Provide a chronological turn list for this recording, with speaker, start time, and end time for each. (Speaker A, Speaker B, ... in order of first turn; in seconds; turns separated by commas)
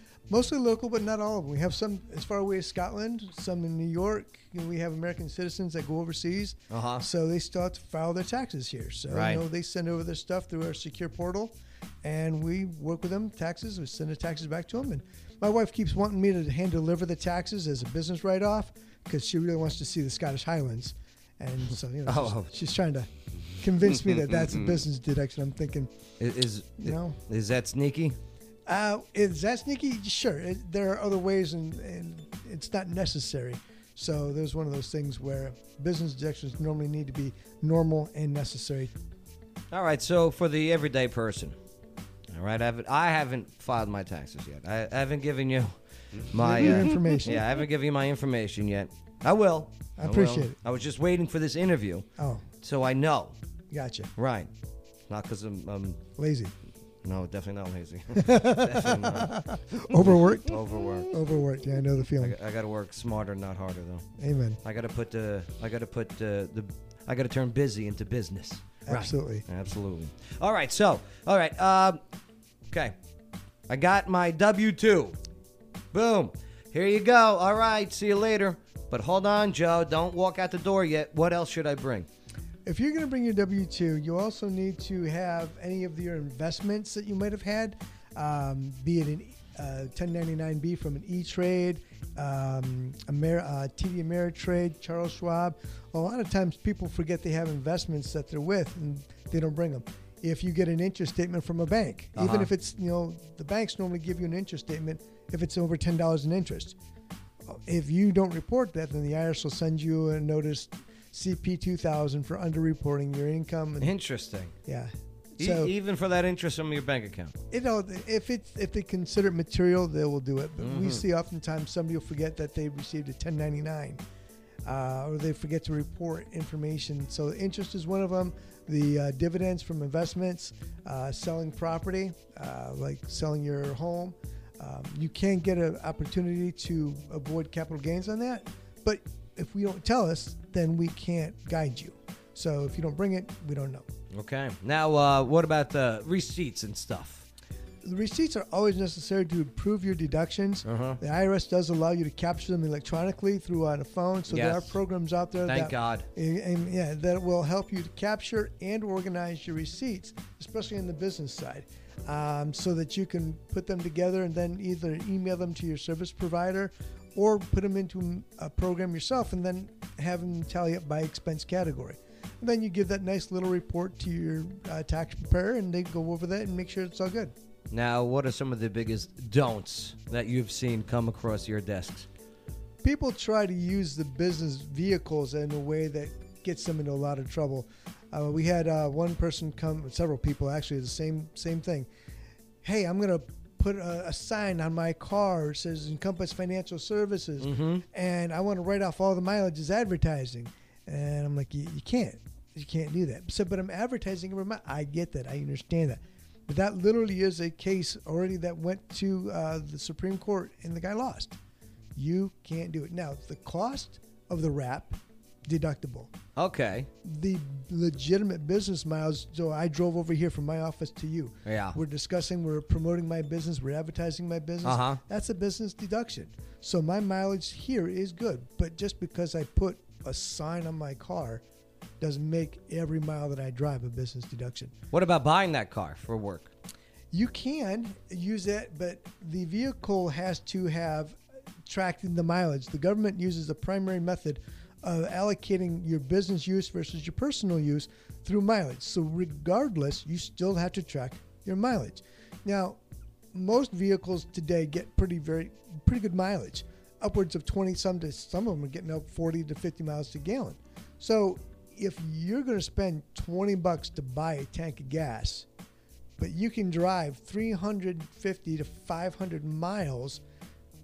Speaker A: 0.3-25.9, Speaker B: 6.7-7.1, Speaker B: 9.1-9.4, Speaker B: 22.1-22.5, Speaker B: 26.2-28.2, Speaker A: 26.8-27.2, Speaker A: 28.7-38.9, Speaker B: 39.7-41.6, Speaker B: 42.3-52.1, Speaker A: 46.4-47.4, Speaker A: 50.0-50.5, Speaker A: 52.2-52.5, Speaker B: 52.6-53.4, Speaker A: 53.7-54.1, Speaker B: 54.2-54.5, Speaker B: 55.1-56.0, Speaker A: 56.2-56.5, Speaker B: 57.0-59.4, Speaker A: 58.2-60.6, Speaker B: 60.5-61.1, Speaker A: 61.1-62.4, Speaker B: 62.2-64.1, Speaker A: 64.2-64.6, Speaker B: 64.6-72.0, Speaker A: 68.9-69.4, Speaker B: 72.7-73.0, Speaker B: 73.7-75.2, Speaker B: 75.9-82.1, Speaker A: 82.7-106.8, Speaker B: 102.2-102.5, Speaker A: 107.5-113.9, Speaker B: 113.8-114.6, Speaker A: 114.7-115.7, Speaker B: 115.4-117.4, Speaker A: 117.5-124.0, Speaker B: 120.6-121.1, Speaker A: 124.7-143.9, Speaker B: 144.1-147.3, Speaker A: 147.8-177.3, Speaker B: 150.6-151.0, Speaker B: 154.3-154.8, Speaker B: 155.5-156.1, Speaker B: 177.7-182.1, Speaker A: 182.8-191.9, Speaker A: 192.6-211.4, Speaker B: 197.4-197.8, Speaker A: 212.0-216.1, Speaker B: 216.4-216.9, Speaker A: 217.0-231.4, Speaker B: 221.5-221.8, Speaker B: 224.6-225.0, Speaker A: 232.0-234.7, Speaker B: 234.9-236.5, Speaker A: 237.1-252.8, Speaker A: 253.3-265.5, Speaker A: 266.2-270.2